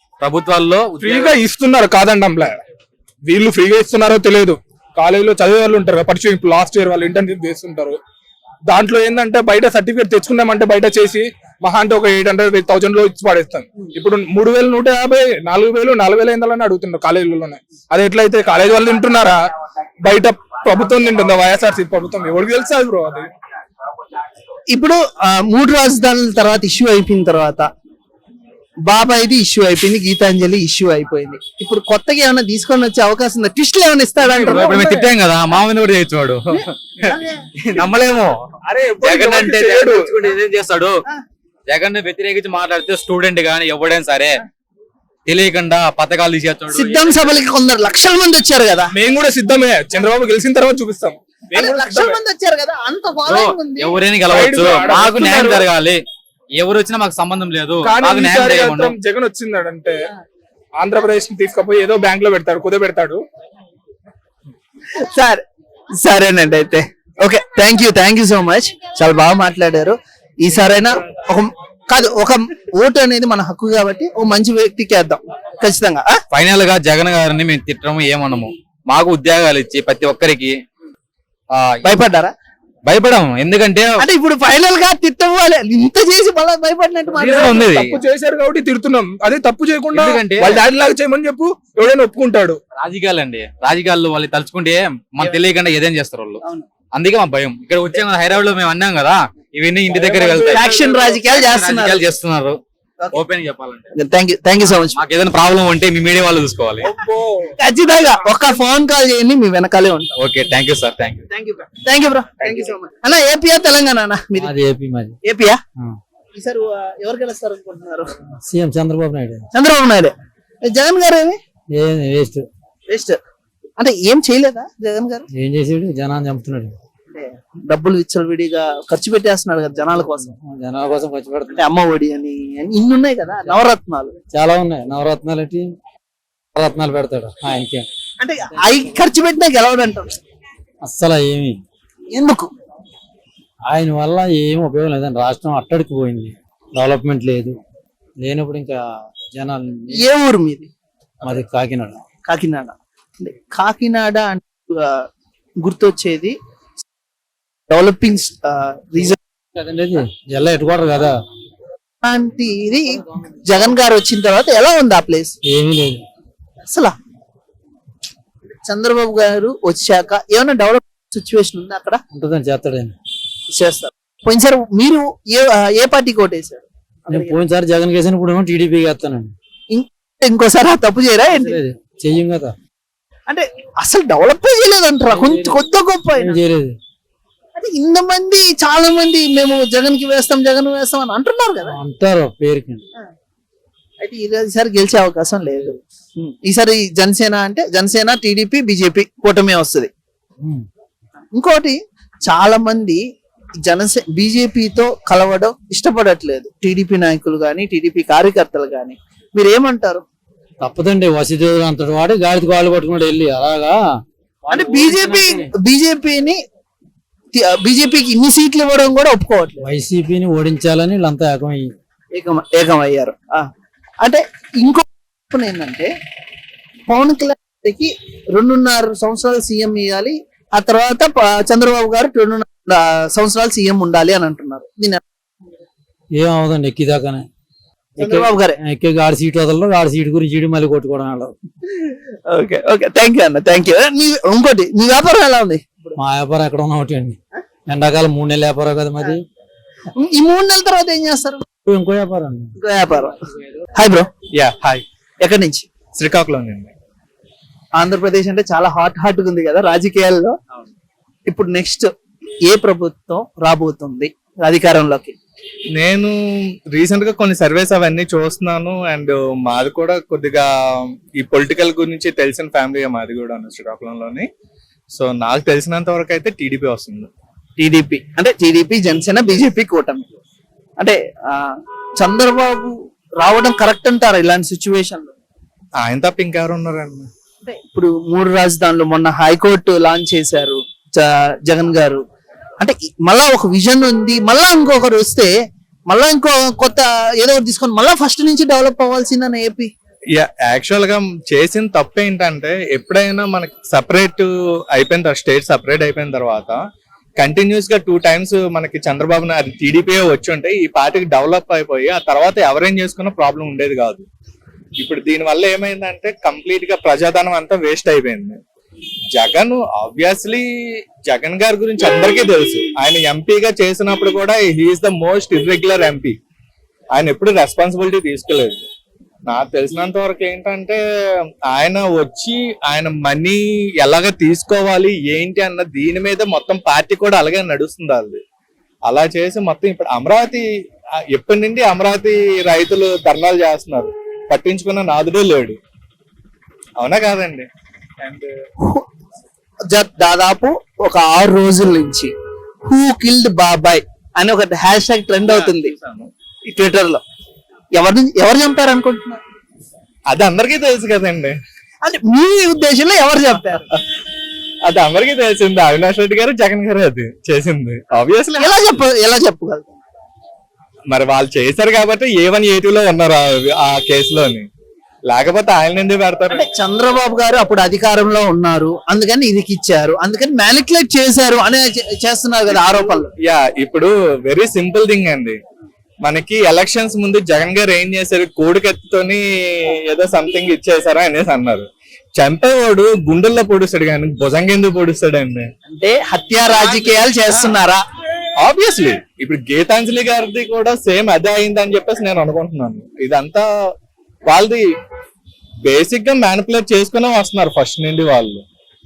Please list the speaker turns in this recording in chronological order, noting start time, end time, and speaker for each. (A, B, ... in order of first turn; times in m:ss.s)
0:00.2-0:01.3 A
0:01.0-0:02.6 B
0:03.2-0:08.0 B
0:08.7-0:19.5 B
0:20.0-0:23.3 B
0:24.7-0:27.7 C
0:28.9-0:35.0 C
0:34.2-0:36.7 A
0:37.1-0:37.4 C
0:37.6-0:38.1 D
0:37.8-0:38.4 A
0:38.7-0:40.3 B
0:39.0-0:41.0 A
0:41.7-0:44.4 A
0:45.3-0:47.3 A
0:46.7-0:48.9 C
0:48.9-0:52.2 B
0:51.5-0:54.0 C
0:53.3-0:56.0 A
0:54.3-0:55.3 B
0:55.0-0:55.7 C
0:56.6-0:58.9 A
0:57.8-1:00.0 B
1:00.8-1:03.2 B
1:05.0-1:05.4 C
1:06.0-1:16.2 C
1:16.3-1:20.5 A
1:21.5-1:21.8 A
1:21.8-1:22.3 C
1:22.9-1:23.9 A
1:24.0-1:28.0 C
1:27.2-1:32.6 B
1:27.2-1:28.0 A
1:29.9-1:30.6 A
1:32.8-1:36.4 A
1:36.9-1:42.6 A
1:39.9-1:41.2 B
1:40.5-1:42.0 C
1:43.1-1:43.9 A
1:44.0-1:45.0 C
1:45.0-1:46.9 A
1:46.8-1:47.5 B
1:47.6-1:50.1 C
1:50.2-1:51.2 A
1:51.3-1:54.5 C
1:54.4-1:55.2 E
1:55.2-1:55.6 C
1:56.4-1:58.2 C
1:58.4-1:59.5 E
1:59.5-2:00.1 C
2:00.7-2:01.4 C
2:01.8-2:02.5 E
2:02.9-2:03.2 C
2:03.8-2:05.3 C
2:05.3-2:06.8 E
2:07.1-2:10.3 C
2:09.8-2:11.7 E
2:11.5-2:14.1 C
2:14.3-2:15.8 E
2:16.6-2:17.9 E
2:18.2-2:20.1 C
2:20.8-2:21.6 E
2:22.1-2:22.5 C
2:23.7-2:27.6 E
2:28.2-2:30.1 E
2:29.9-2:30.7 C
2:31.2-2:32.0 E
2:32.3-2:35.0 C
2:35.6-2:36.4 C
2:37.7-2:39.2 C
2:39.6-2:41.1 E
2:42.0-2:45.4 C
2:45.5-2:46.0 E
2:46.6-2:46.9 C
2:48.7-2:52.0 C
2:52.1-2:53.0 E
2:53.6-2:57.4 C
2:57.1-2:59.3 E
2:59.7-3:01.6 C
3:01.3-3:02.6 E
3:03.3-3:06.4 C
3:05.1-3:05.6 E
3:06.2-3:06.8 E
3:07.6-3:11.8 C
3:11.7-3:12.8 E
3:14.0-3:19.9 C
3:21.4-3:21.8 C
3:22.3-3:23.0 C
3:23.6-3:30.0 C
3:30.6-3:33.8 E
3:34.4-3:35.5 E
3:34.5-3:36.4 C
3:37.3-3:39.6 C
3:39.6-3:41.8 E
3:42.1-3:43.5 C
3:44.0-3:45.9 C
3:46.9-3:55.0 C
3:56.2-3:57.3 E
3:58.0-4:01.4 E
3:58.0-3:58.6 C
4:01.7-4:06.0 C
4:06.0-4:09.2 E
4:10.0-4:11.4 C
4:11.6-4:12.5 E
4:12.6-4:13.2 C
4:13.8-4:14.1 C
4:14.4-4:14.8 D
4:15.2-4:15.6 C
4:16.0-4:16.7 D
4:17.8-4:20.4 C
4:21.3-4:21.9 C
4:22.5-4:25.2 C
4:25.8-4:26.1 D
4:26.7-4:34.3 D
4:34.9-4:37.1 D
4:37.6-4:40.1 C
4:40.8-4:41.4 C
4:42.0-4:45.1 C
4:45.8-4:47.1 D
4:47.4-4:52.0 C
4:52.6-4:55.3 C
4:55.9-4:59.7 C
5:00.2-5:06.6 D
5:07.2-5:14.0 D
5:14.8-5:18.4 D
5:19.1-5:26.2 D
5:27.0-5:28.6 D
5:29.3-5:30.8 D
5:31.5-5:38.2 D
5:38.9-5:40.5 D
5:41.1-5:45.6 D
5:46.8-5:47.5 D
5:48.0-5:48.3 D
5:49.7-5:52.1 C
5:52.7-5:55.7 C
5:55.2-5:56.1 D
5:56.5-5:57.0 C
5:57.7-5:59.2 C
6:00.1-6:01.4 D
6:01.8-6:03.7 C
6:04.7-6:08.5 D
6:08.4-6:09.7 C
6:10.9-6:14.5 D
6:15.1-6:16.4 D
6:16.3-6:23.1 C
6:22.5-6:25.4 D
6:26.0-6:31.7 D
6:32.2-6:35.5 D
6:35.7-6:37.8 C
6:36.5-6:37.1 D
6:38.4-6:43.4 D
6:44.3-6:44.6 D
6:45.6-6:48.4 D